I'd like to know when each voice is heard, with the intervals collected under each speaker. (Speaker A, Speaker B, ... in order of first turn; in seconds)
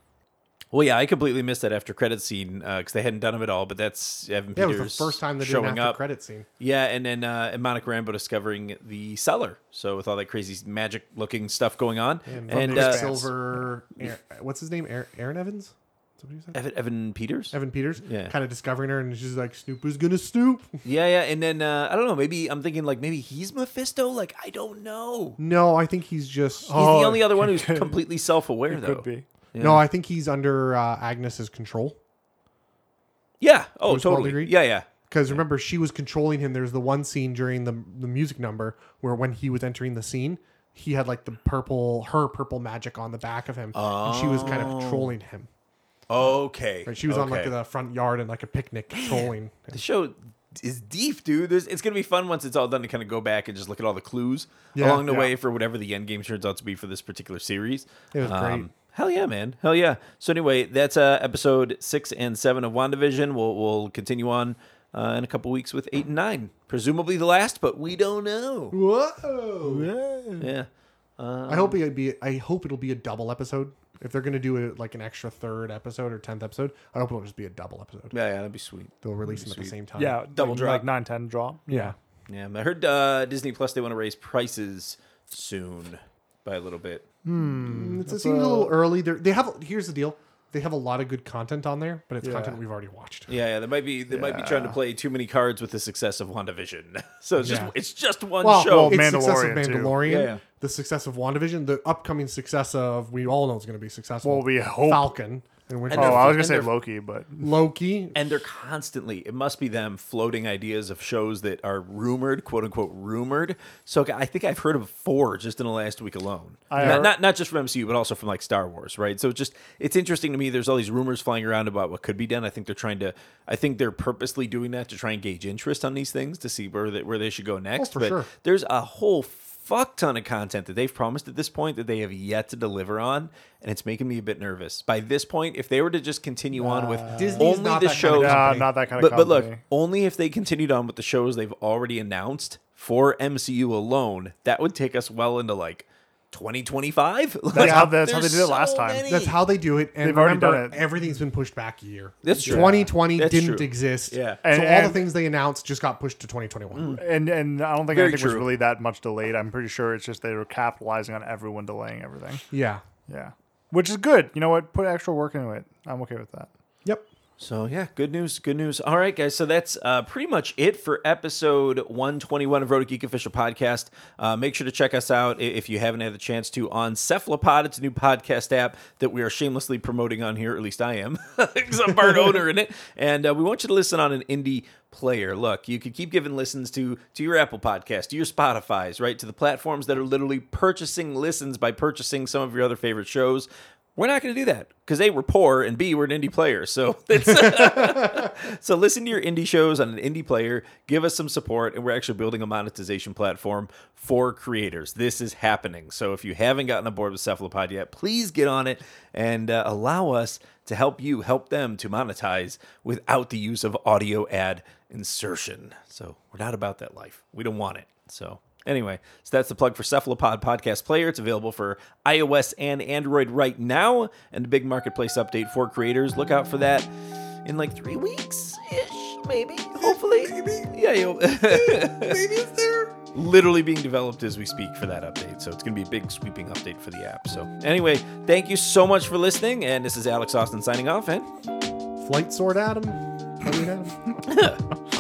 Speaker A: 0.7-6.0, 6.6-13.2, 16.5-18.3, 20.8-25.4, 26.7-29.8, 33.4-35.4, 43.8-45.1, 46.1-47.5, 49.0-68.8, 70.4-71.8, 78.1-79.8, 80.3-80.9, 82.3-87.0, 93.3-99.0, 100.0-100.4, 105.9-106.8, 108.1-149.4, 152.2-154.4, 156.8-157.0, 157.9-158.5, 167.4-226.9, 227.4-232.2, 233.1-241.3, 244.3-244.6
Speaker B: 4.5-6.5, 12.3-16.6, 17.5-20.8, 25.4-26.8, 29.6-32.0, 33.9-34.5, 35.1-45.5, 46.9-49.8, 54.7-55.3, 58.1-58.7, 68.7-69.9, 71.5-78.1, 79.0-80.2, 81.7-82.0, 87.6-93.3, 97.4-97.7, 98.4-106.4, 107.4-108.2, 116.8-117.1, 127.8-128.3, 137.1-138.7, 147.6-147.9, 149.1-157.0, 162.5-162.8, 229.8-230.7, 231.5-233.0, 242.0-244.0
Speaker C: 12.5-13.3, 26.7-28.0, 28.7-29.2, 69.6-70.5, 80.0-82.0, 87.2-88.8, 92.2-92.6, 94.2-94.8, 98.6-100.0, 104.2-105.1, 106.0-107.5, 116.7-117.1, 136.6-137.4, 138.0-139.6, 147.6-149.1, 150.0-150.9, 152.4-152.9, 154.4-155.1, 156.9-162.4, 163.1-166.5